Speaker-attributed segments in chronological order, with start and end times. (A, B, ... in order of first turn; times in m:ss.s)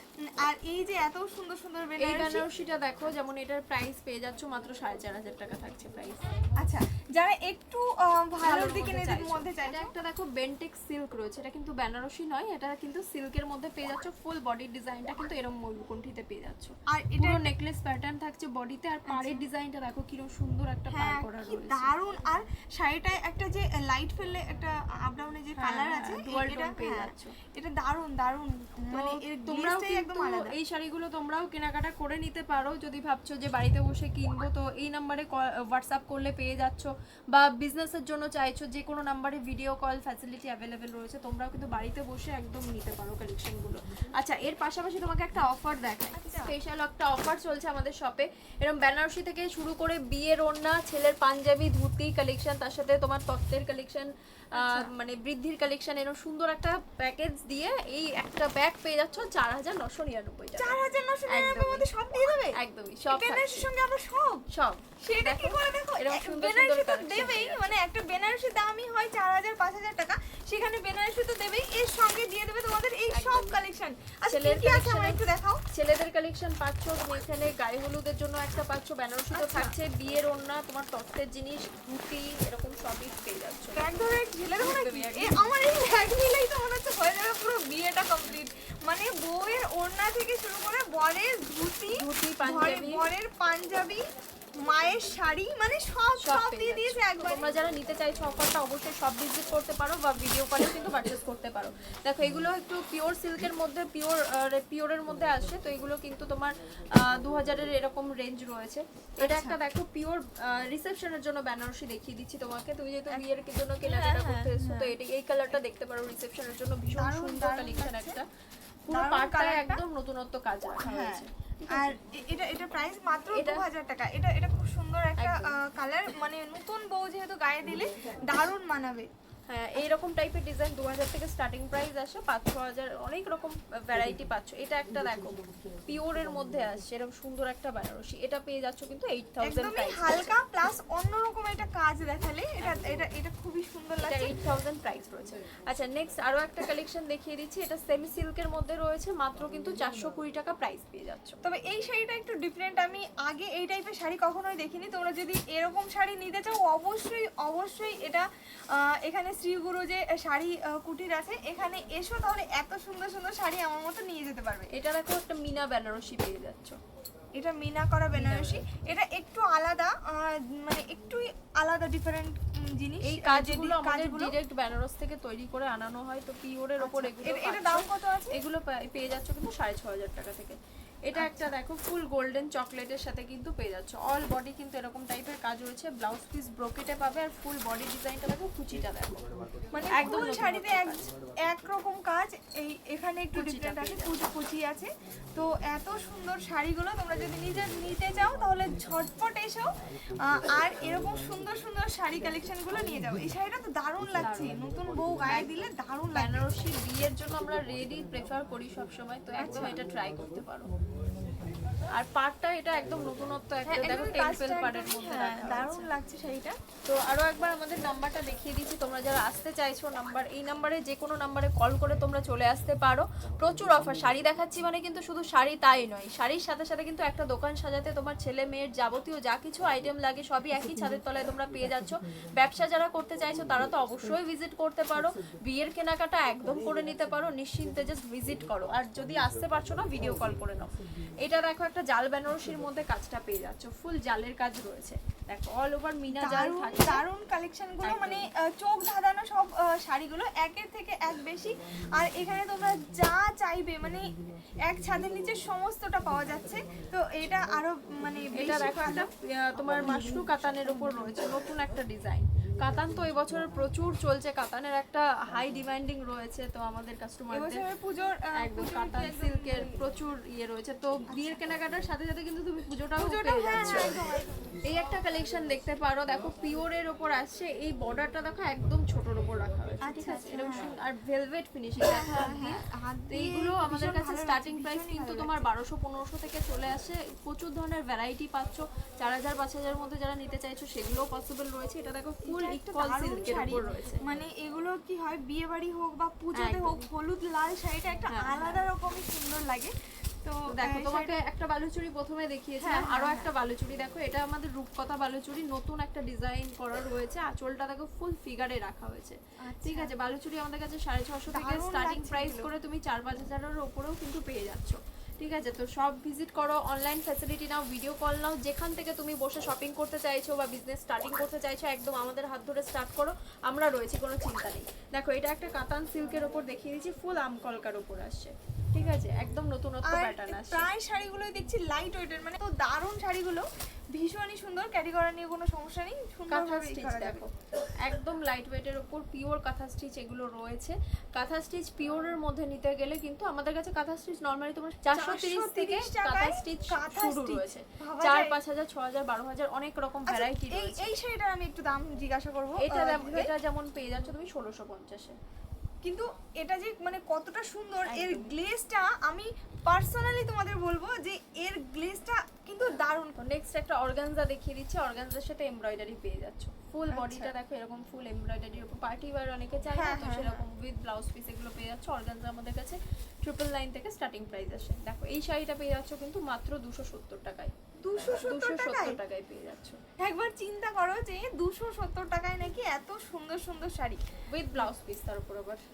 0:00.4-0:02.4 A
0:02.0-0:06.3 B
0:06.6-0:09.9 A
0:08.4-0:21.9 B
0:16.9-0:17.5 A
0:19.1-0:19.4 A
0:20.9-0:30.6 A
0:25.6-0:27.4 B
0:28.9-1:00.8 B
0:46.1-0:46.5 A
0:54.5-0:54.9 A
1:00.6-1:04.4 A
1:01.3-1:01.9 B
1:02.5-1:03.7 B
1:04.5-1:07.7 B
1:05.0-1:15.6 A
1:13.1-1:13.6 B
1:14.3-1:24.0 B
1:19.3-1:19.7 A
1:23.8-1:34.0 A
1:24.6-1:25.5 B
1:31.9-1:33.0 B
1:34.6-1:37.5 A
1:36.2-1:58.3 B
1:49.2-1:49.6 A
1:53.8-1:54.9 A
1:57.0-1:58.2 A
1:58.9-2:01.9 B
1:58.9-1:59.8 A
2:00.8-2:09.1 A
2:03.3-2:03.6 B
2:05.2-2:05.5 B
2:09.5-2:20.3 B
2:19.4-2:24.3 A
2:22.6-2:22.9 B
2:24.0-2:31.4 B
2:31.4-2:44.7 A
2:44.7-2:46.8 B
2:47.3-2:54.4 A
2:48.1-2:48.6 B
2:53.0-3:09.2 B
2:56.8-2:58.4 A
3:01.1-3:01.5 A
3:09.7-3:19.7 A
3:09.9-3:11.1 B
3:13.3-3:14.1 B
3:20.2-3:26.4 A
3:24.2-3:24.6 B
3:25.2-3:30.7 B
3:29.3-3:29.8 A
3:31.9-3:35.9 B
3:33.7-3:36.6 A
3:36.8-4:07.0 B
4:06.1-4:19.1 A
4:07.8-4:08.2 B
4:18.3-4:27.6 B
4:27.3-4:29.8 A
4:28.4-4:33.9 B
4:31.1-4:31.4 A
4:33.0-4:34.6 A
4:34.6-4:54.0 B
4:39.8-4:40.7 A
4:41.8-4:45.5 A
4:52.2-5:01.1 A
4:56.3-4:56.8 B
4:58.1-4:58.6 B
5:00.5-5:30.7 B
5:02.6-5:03.3 A
5:09.4-5:09.9 A
5:11.3-5:12.5 A
5:29.8-5:37.3 A
5:36.3-5:37.3 B
5:37.8-5:50.9 B
5:44.9-5:48.4 A
5:50.1-5:53.3 A
5:52.6-5:55.2 B
5:55.8-6:03.2 A
5:57.8-5:58.3 B
6:03.2-6:17.5 B
6:06.9-6:07.3 A
6:09.7-6:10.4 A
6:17.8-6:19.0 A
6:18.2-6:19.8 B
6:20.0-6:24.0 A
6:24.3-6:25.6 B